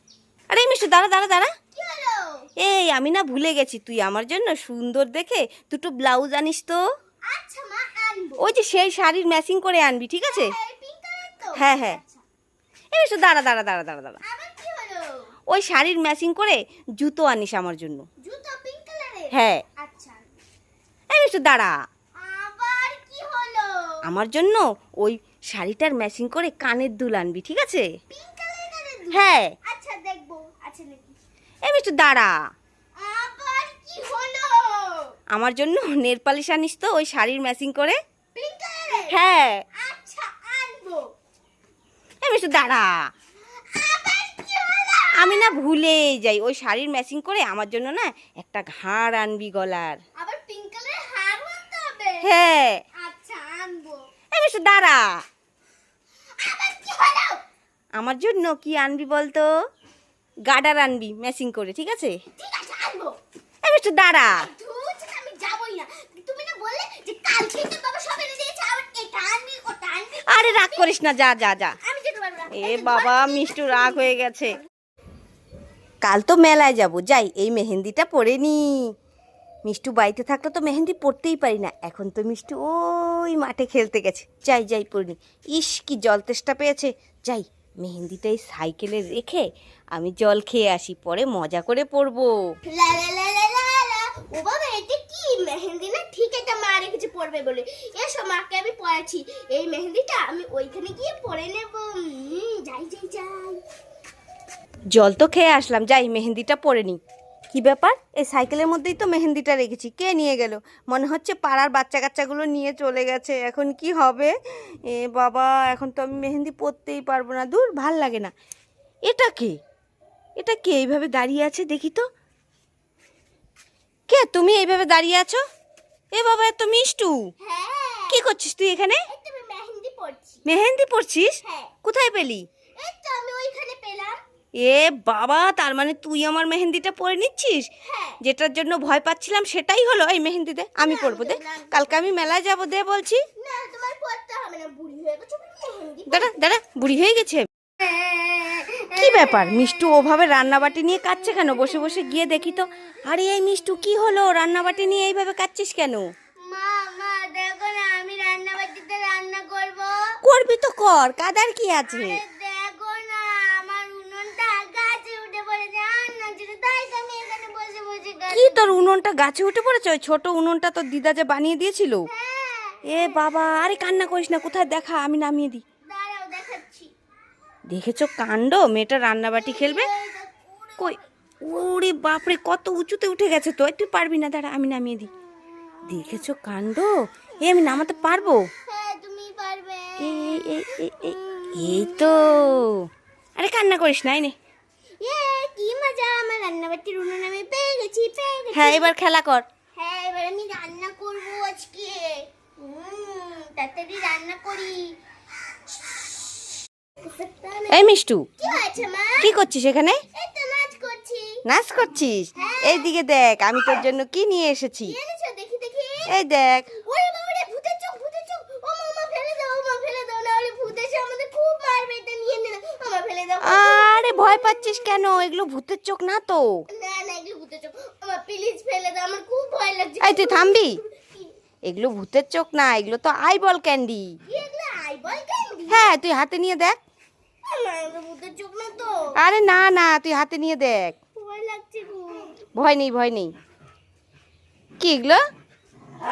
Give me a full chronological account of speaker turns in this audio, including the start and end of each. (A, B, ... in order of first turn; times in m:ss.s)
0:00.5-0:01.5 A
0:01.7-0:02.5 B
0:02.6-0:06.8 A
0:07.3-0:08.4 B
0:08.4-0:10.5 A
0:10.2-0:12.2 B
0:11.6-0:12.0 A
0:12.9-0:14.2 A
0:14.2-0:15.3 B
0:15.5-0:18.0 A
0:18.2-0:20.3 B
0:19.3-0:19.6 A
0:21.1-0:21.7 A
0:22.2-0:24.0 B
0:24.0-0:27.9 A
0:28.1-0:31.2 B
0:29.1-0:29.5 A
0:31.6-0:32.3 A
0:33.0-0:35.1 B
0:35.3-0:38.0 A
0:38.3-0:39.1 B
0:39.1-0:39.6 A
0:39.7-0:41.1 B
0:42.2-0:43.0 A
0:43.5-0:45.6 B
0:45.2-0:50.0 A
0:50.2-0:52.3 B
0:52.2-0:52.8 A
0:53.0-0:54.0 B
0:54.3-0:55.2 A
0:56.4-0:57.4 B
0:58.0-0:59.5 A
1:00.5-1:02.2 A
1:02.4-1:03.1 B
1:03.6-1:04.5 A
1:04.4-1:11.0 B
1:10.3-1:11.8 A
1:11.8-1:14.1 B
1:12.5-1:14.6 A
1:16.0-1:18.9 A
1:19.6-1:32.3 A
1:32.6-1:43.6 B
1:44.9-1:47.0 A
1:47.5-1:58.3 A
1:59.0-1:59.5 A
2:00.4-2:02.1 A
2:04.1-2:05.4 A
2:06.1-2:07.3 A
2:07.4-2:08.2 B
2:08.1-2:09.0 A
2:09.1-2:10.4 B
2:10.4-2:12.5 A
2:11.4-2:11.7 B
2:12.8-2:14.1 B
2:14.6-2:17.7 A
2:17.8-2:18.2 B
2:18.2-2:23.2 A
2:20.8-2:22.2 B
2:23.4-2:26.3 B
2:26.1-2:27.5 A
2:27.8-2:29.6 B
2:28.9-2:36.1 A
2:36.4-2:40.2 B
2:40.2-2:42.2 A
2:41.8-2:48.9 B
2:48.3-2:52.1 A
2:52.1-2:53.2 B
2:52.8-2:55.6 A
2:55.8-2:56.9 B
2:57.7-2:59.9 A
2:59.3-3:01.1 B
3:00.8-3:05.1 A
3:05.9-3:08.4 A
3:08.6-3:12.6 B
3:10.0-3:14.4 A
3:15.0-3:18.9 B
3:18.5-3:19.4 A
3:19.8-3:24.9 B
3:25.7-3:26.1 B
3:27.0-3:29.3 B
3:27.7-3:28.3 A
3:29.2-3:30.0 A
3:30.1-3:31.4 B
3:31.4-3:35.0 A
3:32.4-3:32.9 B
3:34.8-3:36.1 B
3:36.1-3:36.7 A
3:36.7-3:44.8 B
3:43.4-3:46.6 A
3:46.7-3:51.4 B
3:50.0-3:50.8 A
3:51.6-3:54.1 A
3:54.3-3:55.9 B
3:55.7-3:56.8 A
3:57.4-3:59.1 B
3:59.2-4:00.9 A
4:01.2-4:02.4 B
4:02.5-4:03.3 A
4:04.8-4:05.2 A